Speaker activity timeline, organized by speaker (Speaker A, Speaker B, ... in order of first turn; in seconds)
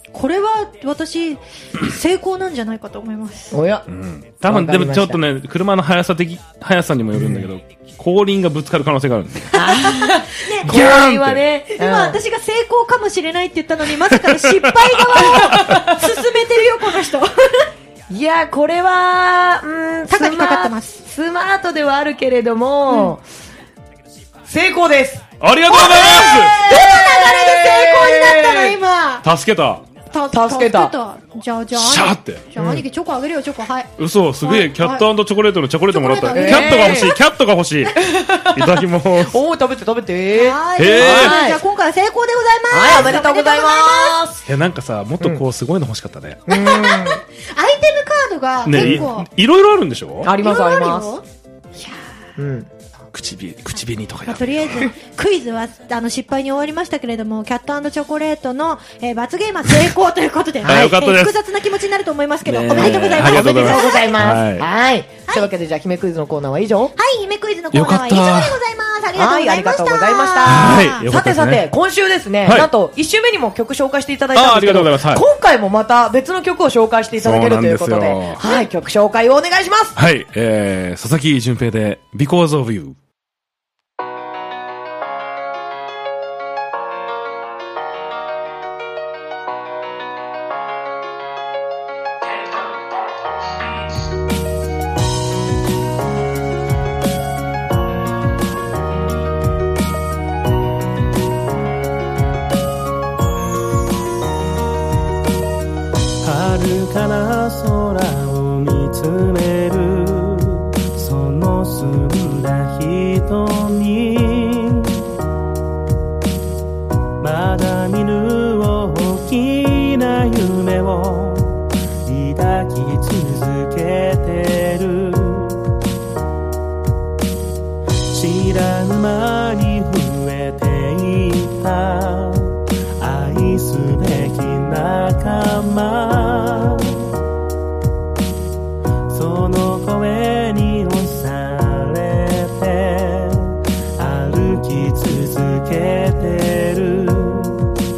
Speaker A: 0.1-3.6, 9.6-10.7, 11.7-17.7, 20.1-21.0, 22.9-23.1, 25.7-29.3, 30.1-35.1, 35.9-37.1, 40.3-44.2, 46.5-49.3, 50.4-51.2, 54.3-64.2, 67.0-71.0
Speaker B: 3.5-3.9, 4.5-5.2, 7.1-7.5, 9.5-12.2, 15.3-15.9, 18.1-23.2, 24.5-25.2, 26.6-28.8, 30.3-30.9, 32.6-32.8, 36.3-37.1, 38.0-41.6, 42.7-44.4, 46.5-47.2, 48.7-49.1, 50.2-51.1, 52.4-52.7, 60.6-60.9, 62.7-66.9, 69.1-80.0
Speaker C: 3.9-9.6, 10.6-11.4, 14.2-15.6, 25.4-26.6, 29.2-29.8, 31.7-32.4, 34.0-39.4, 40.8-41.4, 44.5-46.5, 48.6-50.3, 53.1-54.9, 60.6-61.4, 62.4-64.7, 67.7-68.6, 70.4-71.7, 72.4-72.7, 74.3-75.2, 77.2-78.4, 80.0-82.9
Speaker D: 106.2-115.1, 117.2-125.6, 128.1-137.1, 139.1-147.7